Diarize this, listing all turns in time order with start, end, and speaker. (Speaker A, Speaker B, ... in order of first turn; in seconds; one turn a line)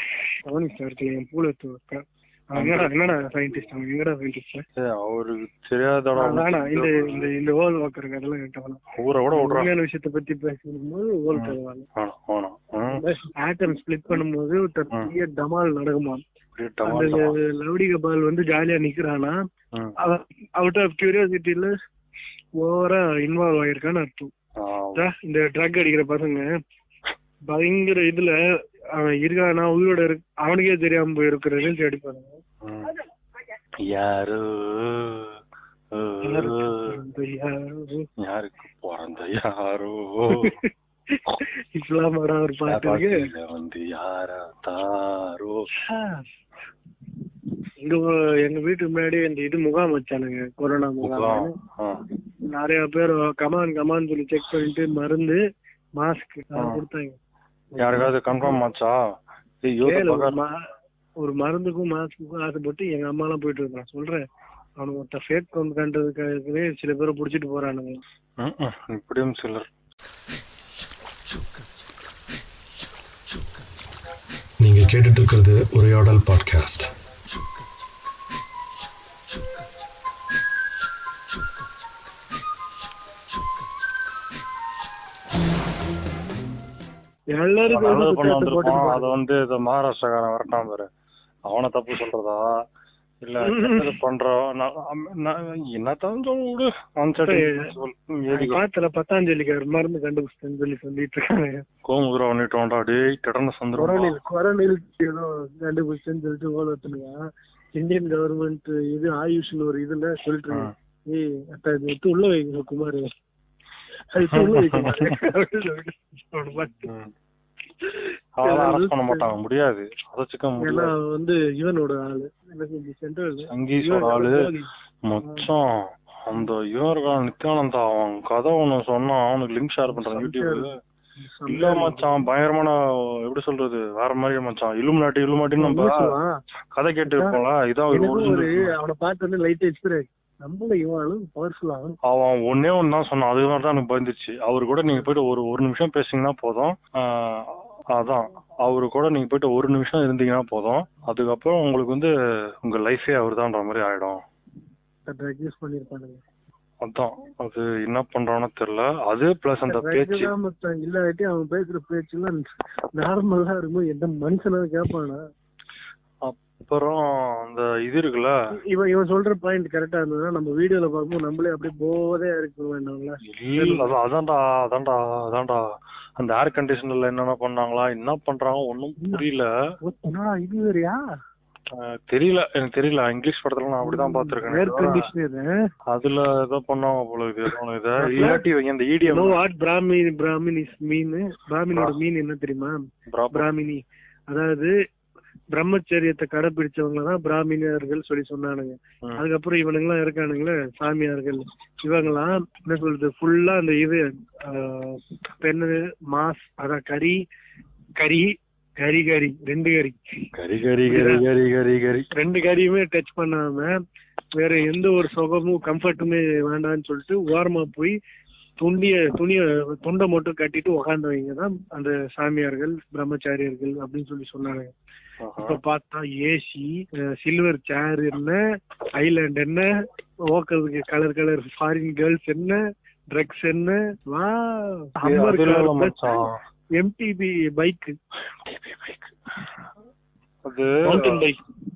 Speaker A: 0.4-4.6
Speaker B: 2.5-2.9
Speaker B: 4.8-7.3
Speaker A: 6.2-8.8
Speaker B: 8.9-9.7
Speaker A: 9.3-11.8
Speaker B: 11.3-13.0
Speaker A: 12.9-16.2
Speaker B: 16.5-17.4
Speaker A: 16.9-19.4
Speaker A: 20.0-21.7
Speaker A: 22.6-24.3
Speaker B: 24.6-25.0
Speaker A: 24.9-26.5
Speaker A: 27.5-28.4
Speaker A: 28.9-32.4
Speaker B: 32.6-32.9
Speaker B: 33.8-35.3
Speaker B: 35.9-37.0
Speaker A: 36.2-38.1
Speaker B: 38.2-40.5
Speaker A: 40.3-43.2
Speaker B: 42.7-45.6
Speaker A: 45.8-46.2
Speaker A: 47.8-51.5
Speaker B: 51.0-52.0
Speaker A: 52.5-55.4
Speaker A: 56.0-57.2
Speaker B: 56.5-56.8
Speaker A: 57.7-58.6
Speaker B: 57.8-59.0
Speaker B: 59.6-60.4
Speaker A: 59.8-60.6
Speaker A: 61.2-64.2
Speaker A: 64.8-68.0
Speaker B: 68.4-69.7
Speaker C: 74.6-76.9
Speaker A: 87.3-89.1
Speaker B: 87.7-90.9
Speaker B: 91.5-92.6
Speaker B: 93.2-98.6
Speaker A: 93.4-94.0
Speaker A: 97.2-97.7
Speaker A: 98.3-101.6
Speaker B: 101.9-104.1
Speaker A: 103.7-107.2
Speaker A: 107.7-113.1
Speaker A: 114.1-116.9
Speaker B: 114.2-115.2
Speaker A: 117.8-119.3
Speaker B: 118.4-120.9
Speaker A: 120.6-124.7
Speaker B: 123.5-124.5
Speaker B: 125.0-130.7
Speaker A: 129.9-130.7
Speaker A: 131.2-132.2
Speaker B: 131.5-136.1
Speaker A: 135.6-136.3
Speaker B: 136.7-138.7
Speaker A: 137.0-137.4
Speaker A: 137.9-142.0
Speaker B: 142.0-152.1
Speaker B: 152.6-154.2
Speaker A: 155.1-156.2
Speaker B: 156.8-160.3
Speaker A: 159.7-165.2
Speaker B: 166.2-168.3
Speaker A: 168.7-173.9
Speaker B: 173.2-175.6
Speaker B: 176.2-179.5
Speaker A: 179.0-179.2
Speaker A: 179.8-181.0
Speaker B: 181.7-185.1
Speaker A: 183.8-185.5
Speaker B: 185.9-189.4
Speaker A: 188.0-188.4
Speaker A: 189.1-194.7
Speaker B: 193.1-193.5
Speaker A: 195.5-207.2
Speaker A: 208.0-210.3
Speaker B: 210.3-212.1
Speaker A: 210.9-211.2
Speaker A: 212.1-213.8
Speaker A: 214.3-217.9
Speaker A: 218.6-224.7
Speaker B: 225.2-225.6
Speaker A: 225.4-228.4
Speaker A: 229.0-229.7
Speaker A: 230.2-232.6
Speaker A: 233.1-236.2
Speaker B: 235.0-236.4
Speaker A: 236.8-237.9
Speaker B: 240.4-241.2
Speaker A: 240.8-241.4